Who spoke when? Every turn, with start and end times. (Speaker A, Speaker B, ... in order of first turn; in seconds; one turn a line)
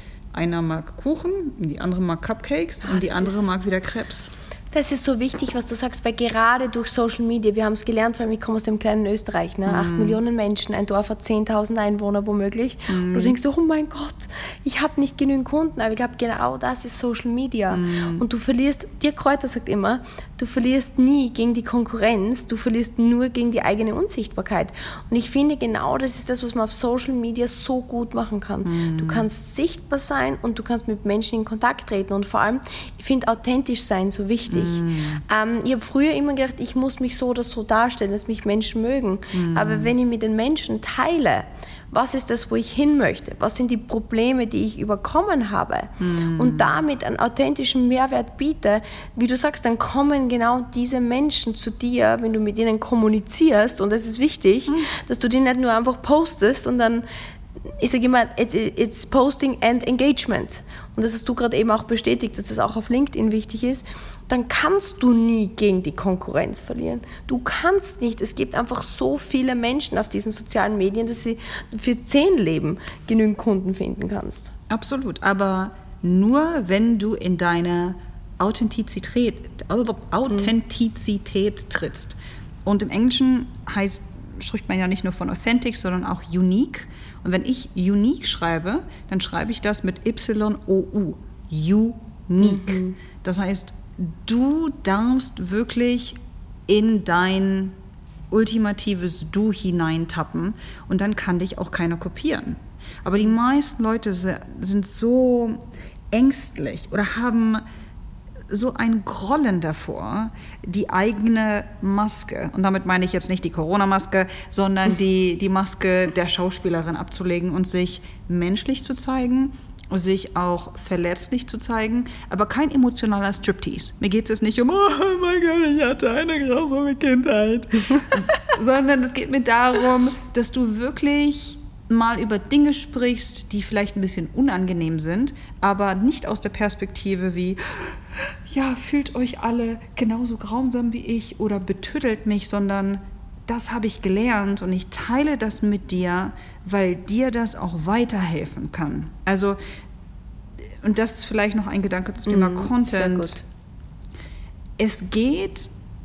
Speaker A: 0.3-4.3
Speaker B: 2.9-3.5
Speaker B: 4.7-57.0
Speaker A: 9.7-10.2
Speaker A: 12.9-13.3
Speaker A: 17.7-18.2
Speaker A: 28.6-29.2
Speaker A: 34.5-35.2
Speaker A: 39.3-39.9
Speaker A: 46.0-46.8
Speaker B: 57.8-74.5
Speaker A: 74.7-97.7
Speaker B: 92.4-93.0
Speaker A: 98.3-107.6
Speaker A: 108.5-149.6
Speaker A: 150.7-153.4
Speaker B: 152.2-153.4
Speaker A: 154.8-155.7